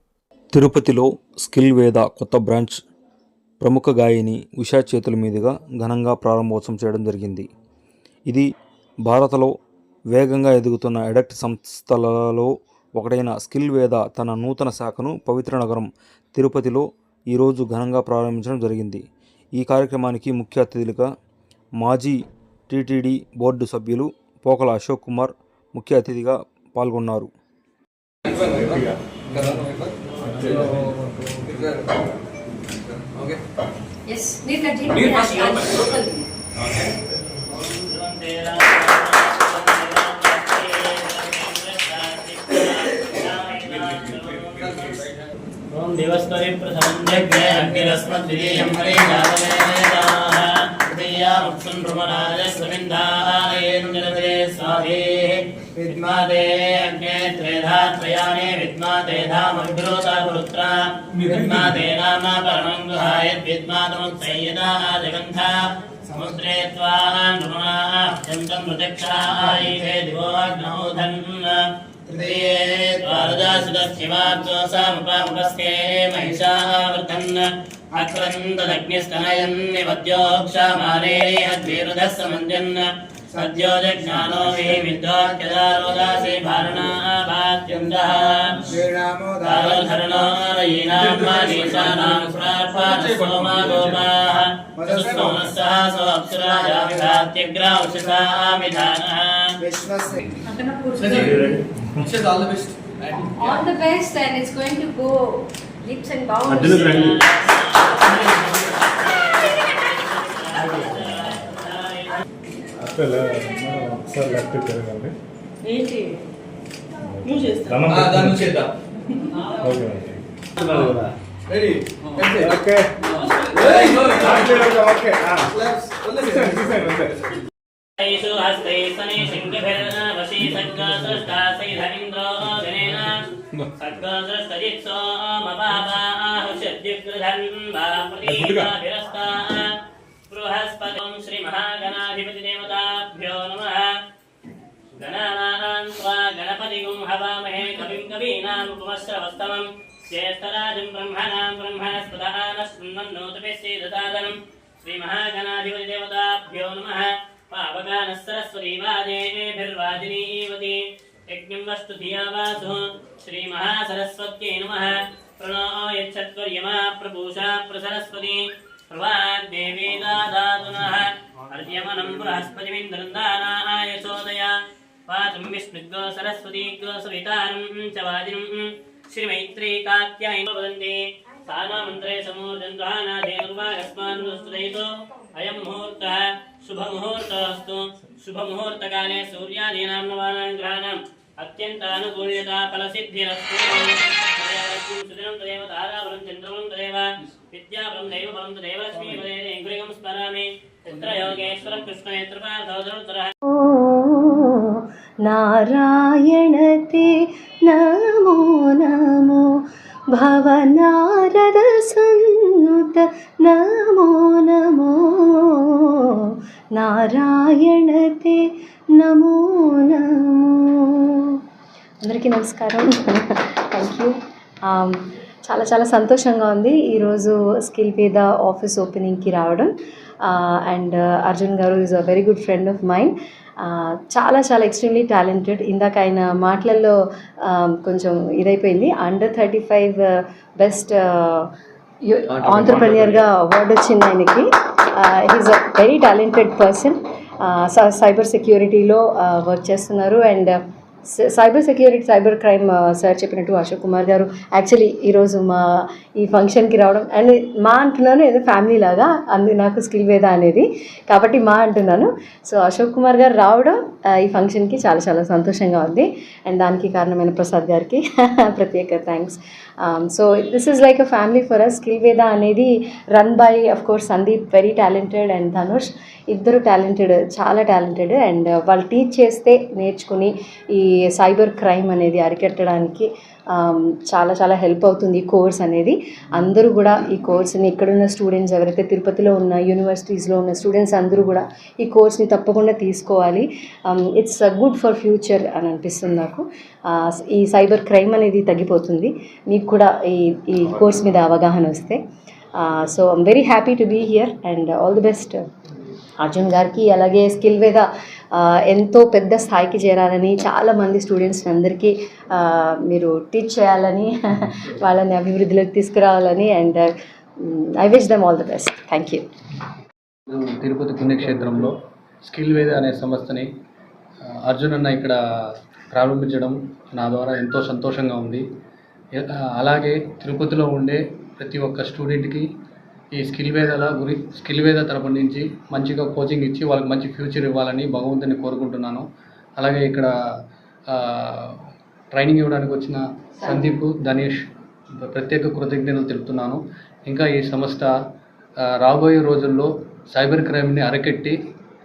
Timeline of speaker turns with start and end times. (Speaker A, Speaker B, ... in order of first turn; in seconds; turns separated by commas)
Speaker A: 0.5-2.8, Speaker A: 3.6-7.5, Speaker A: 9.0-9.5, Speaker A: 10.1-19.0, Speaker A: 19.5-21.1, Speaker A: 21.8-27.3, Speaker B: 29.4-29.9, Speaker C: 30.2-31.4, Speaker D: 34.1-36.2, Speaker E: 35.1-35.8, Speaker E: 37.5-44.9, Speaker E: 45.7-88.8, Speaker E: 89.4-99.5, Speaker D: 100.5-101.5, Speaker B: 102.1-103.1, Speaker D: 103.4-107.1, Speaker E: 106.6-112.2, Speaker C: 112.8-115.1, Speaker D: 115.6-116.1, Speaker C: 117.1-118.5, Speaker D: 117.2-117.6, Speaker B: 118.0-118.7, Speaker C: 119.6-121.1, Speaker B: 121.5-122.5, Speaker C: 122.3-123.0, Speaker B: 123.1-124.5, Speaker C: 124.2-125.5, Speaker B: 125.6-126.4, Speaker C: 126.2-127.1, Speaker E: 128.0-133.3, Speaker E: 133.8-139.7, Speaker C: 138.2-138.7, Speaker E: 140.3-143.9, Speaker E: 144.9-174.5, Speaker E: 175.1-203.3, Speaker F: 203.5-221.4, Speaker F: 222.0-229.7, Speaker F: 230.2-236.9, Speaker F: 237.4-241.5, Speaker F: 242.1-250.5, Speaker F: 251.2-302.0, Speaker F: 302.6-305.4, Speaker F: 306.2-316.9, Speaker F: 317.4-319.2, Speaker G: 320.3-323.5, Speaker G: 324.2-328.4, Speaker G: 329.1-332.5, Speaker G: 333.1-339.1, Speaker G: 339.6-340.1, Speaker G: 340.9-344.4, Speaker F: 343.4-343.7, Speaker G: 345.0-347.9, Speaker G: 348.6-351.4